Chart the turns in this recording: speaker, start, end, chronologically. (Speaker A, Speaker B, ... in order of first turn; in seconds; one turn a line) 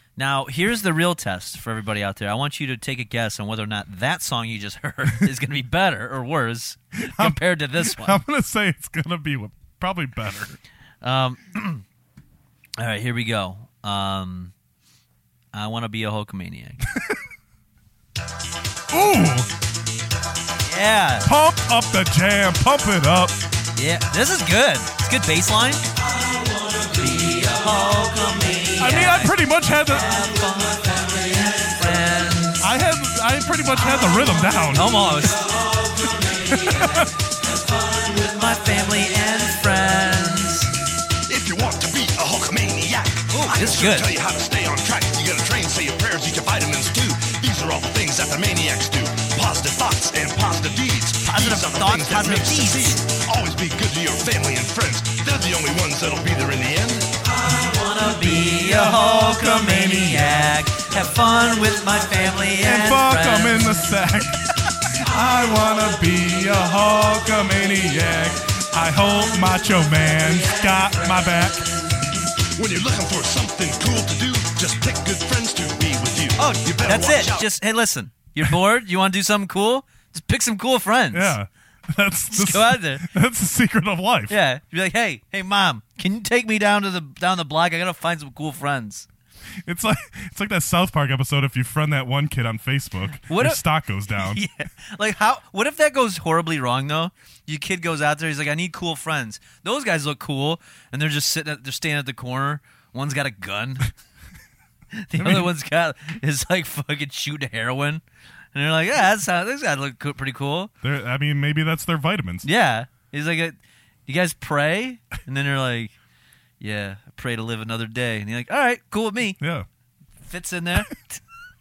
Speaker A: 0.2-8.2
Speaker B: 7.0-10.6
Speaker A: 11.0-11.8
Speaker A: 12.8-14.5
Speaker A: 15.5-16.8
Speaker B: 16.9-17.2
Speaker B: 18.9-19.5
Speaker A: 20.6-21.3
Speaker B: 21.2-23.4
Speaker A: 23.8-25.9
Speaker A: 26.8-32.7
Speaker B: 28.8-30.2
Speaker B: 32.6-35.3
Speaker A: 34.7-37.2
Speaker B: 36.5-37.1
Speaker A: 37.8-40.7
Speaker C: 41.3-57.1
Speaker A: 43.3-44.1
Speaker A: 51.2-53.0
Speaker A: 57.4-64.0
Speaker B: 58.4-60.4
Speaker B: 62.6-64.4
Speaker B: 65.0-71.7
Speaker C: 72.4-77.5
Speaker A: 76.4-81.4
Speaker B: 81.1-84.3
Speaker A: 82.3-83.1
Speaker A: 84.3-89.1
Speaker B: 89.7-94.4
Speaker A: 93.3-103.9
Speaker A: 105.0-108.0
Speaker B: 105.2-105.5
Speaker A: 108.5-110.7
Speaker B: 110.8-112.5
Speaker A: 112.4-115.9
Speaker A: 116.6-119.4
Speaker B: 119.4-119.7
Speaker A: 120.2-121.2